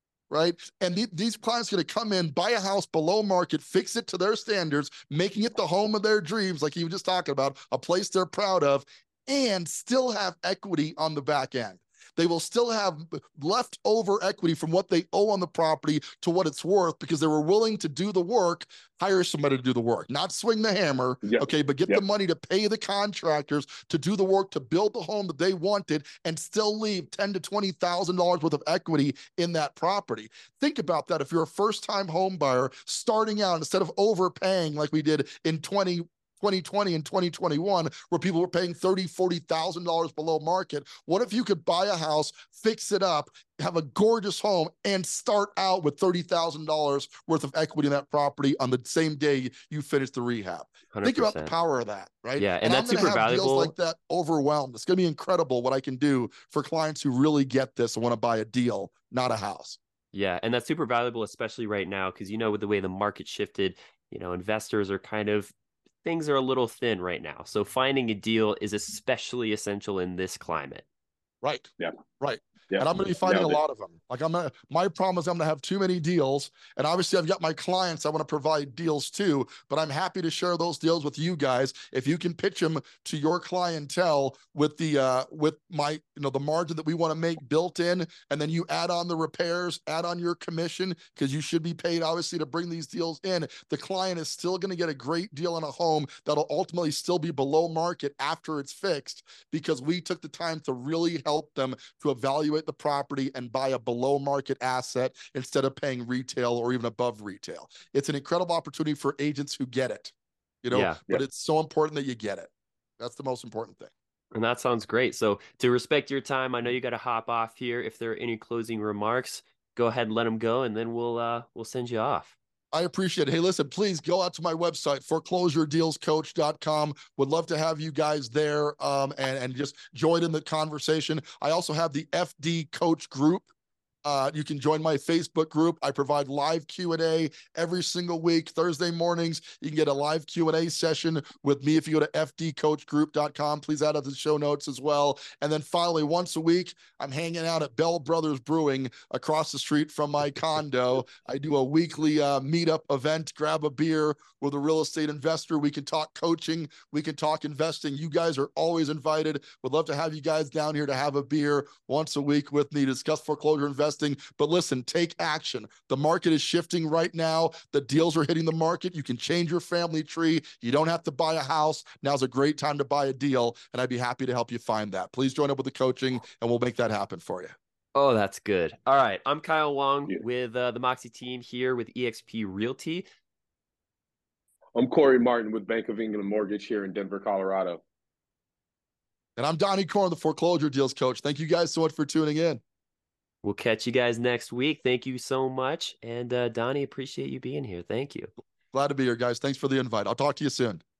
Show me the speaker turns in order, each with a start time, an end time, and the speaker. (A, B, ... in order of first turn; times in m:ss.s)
0:00.3-0:59.8 A
0:21.2-0:22.0 B
0:50.9-0:51.5 C
0:52.4-0:53.7 C
1:00.1-1:05.5 C
1:06.0-1:10.8 C
1:11.4-1:53.9 A
1:12.7-1:13.6 B
1:50.7-1:51.0 C
1:54.3-2:02.4 C
2:02.7-2:13.5 A
2:14.0-2:57.6 A
2:58.0-3:03.1 C
3:04.8-3:07.8 B
3:09.4-3:12.6 A
3:13.4-3:18.3 C
3:18.7-3:20.8 A